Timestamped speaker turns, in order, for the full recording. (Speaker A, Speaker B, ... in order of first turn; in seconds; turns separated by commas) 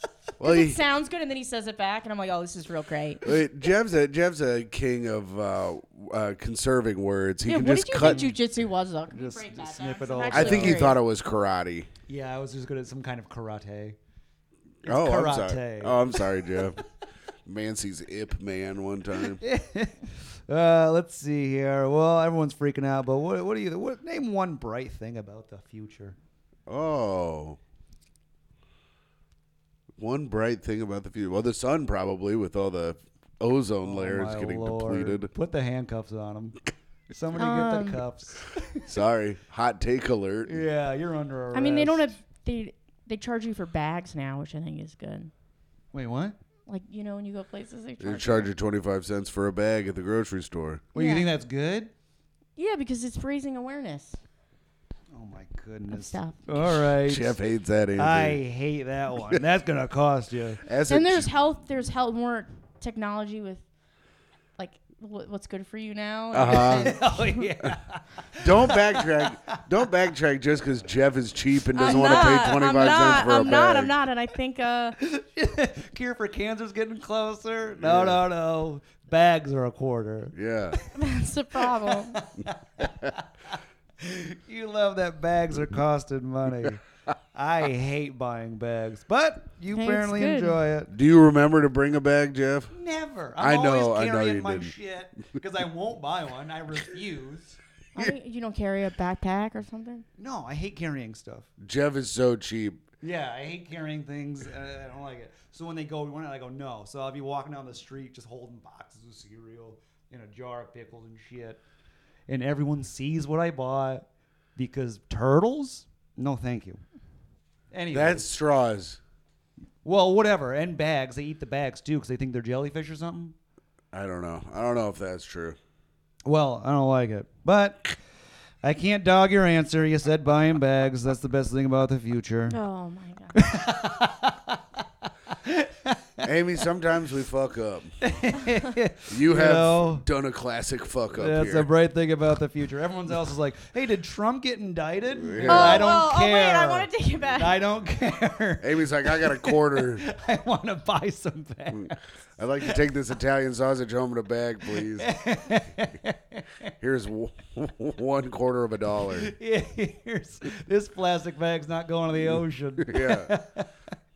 Speaker A: 0.4-0.8, Speaker B: 0.4-3.3, Speaker A: 3.2-8.3, Speaker B: 7.5-11.0, Speaker C: 8.0-8.4, Speaker C: 9.1-10.9, Speaker A: 10.3-11.9, Speaker C: 12.1-14.0, Speaker C: 14.8-16.2, Speaker A: 14.9-16.8, Speaker A: 17.4-19.4, Speaker C: 19.3-26.2, Speaker A: 26.7-27.6, Speaker A: 30.0-35.3, Speaker C: 33.8-36.6, Speaker C: 37.1-38.9, Speaker B: 37.4-38.0, Speaker A: 38.9-40.6, Speaker C: 40.5-42.1, Speaker B: 41.5-45.3, Speaker C: 45.9-46.4, Speaker B: 46.7-48.5, Speaker A: 48.0-50.9, Speaker C: 50.9-51.9, Speaker B: 51.0-51.3, Speaker B: 52.6-54.2, Speaker C: 55.1-57.4, Speaker B: 55.9-56.8, Speaker A: 57.0-58.4, Speaker C: 58.0-60.6, Speaker A: 60.6-61.3, Speaker B: 60.9-63.6, Speaker B: 64.6-67.4, Speaker A: 66.3-67.0, Speaker C: 66.5-69.6, Speaker A: 68.4-73.9, Speaker B: 71.7-75.0, Speaker C: 75.0-80.9, Speaker A: 77.8-78.2, Speaker A: 80.4-80.8, Speaker B: 81.0-82.2, Speaker C: 81.8-90.9, Speaker B: 89.8-90.6, Speaker A: 90.9-92.7, Speaker C: 92.7-97.6, Speaker A: 93.4-94.7, Speaker B: 98.0-100.1, Speaker C: 100.2-101.5, Speaker A: 101.6-102.8, Speaker C: 103.0-111.6, Speaker C: 112.3-114.0, Speaker C: 114.6-116.8, Speaker C: 117.7-118.3, Speaker A: 117.9-119.0, Speaker C: 119.8-123.3, Speaker A: 123.9-125.6, Speaker C: 126.2-128.0, Speaker C: 128.6-132.6, Speaker B: 132.5-133.4, Speaker C: 133.3-136.2, Speaker A: 136.2-137.9, Speaker C: 138.0-140.1, Speaker A: 139.1-141.7, Speaker C: 141.2-152.0, Speaker A: 145.2-146.0, Speaker B: 145.4-147.6, Speaker A: 148.6-150.0, Speaker A: 152.4-155.1, Speaker C: 154.7-156.7, Speaker A: 156.8-159.3, Speaker C: 159.2-163.7, Speaker A: 162.8-163.3